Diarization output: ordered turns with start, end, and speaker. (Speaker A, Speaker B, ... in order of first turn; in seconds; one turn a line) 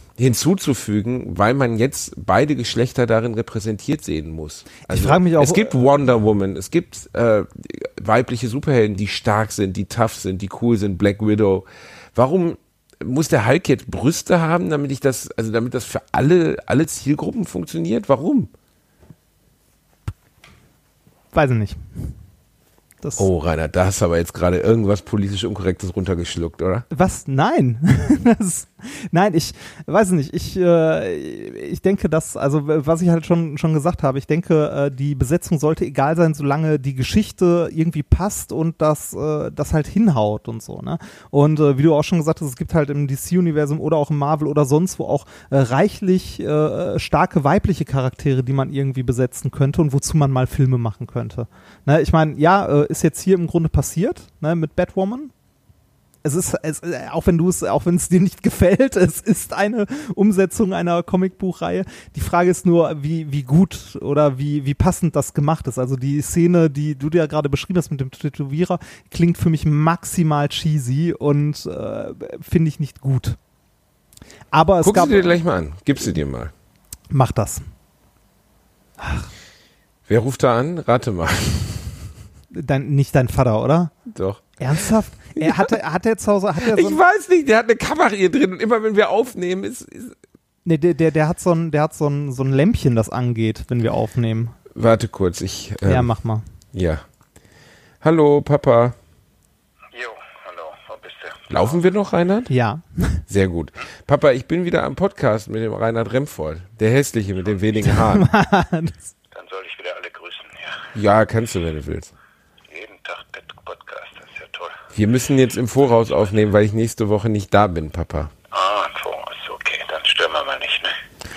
Speaker A: 0.2-18.5
Speaker B: 4.8-5.8
Speaker B: 21.3-22.1
Speaker A: 23.2-26.9
Speaker B: 26.9-55.3
Speaker B: 56.2-73.4
Speaker B: 74.5-75.4
Speaker A: 74.8-76.5
Speaker B: 77.1-77.6
Speaker B: 79.0-79.3
Speaker A: 80.1-81.9
Speaker B: 82.5-83.9
Speaker A: 84.1-85.7
Speaker B: 84.6-87.0
Speaker A: 86.6-90.1
Speaker B: 90.6-94.5
Speaker A: 94.7-96.1
Speaker B: 95.9-96.4
Speaker A: 96.7-97.0
Speaker A: 98.0-99.0
Speaker C: 99.9-101.7
Speaker A: 101.5-102.5
Speaker B: 102.5-103.2
Speaker A: 103.3-108.3
Speaker B: 107.8-109.1
Speaker C: 109.3-110.9
Speaker A: 110.9-112.1
Speaker C: 112.7-114.8
Speaker A: 114.9-118.3
Speaker C: 118.5-121.0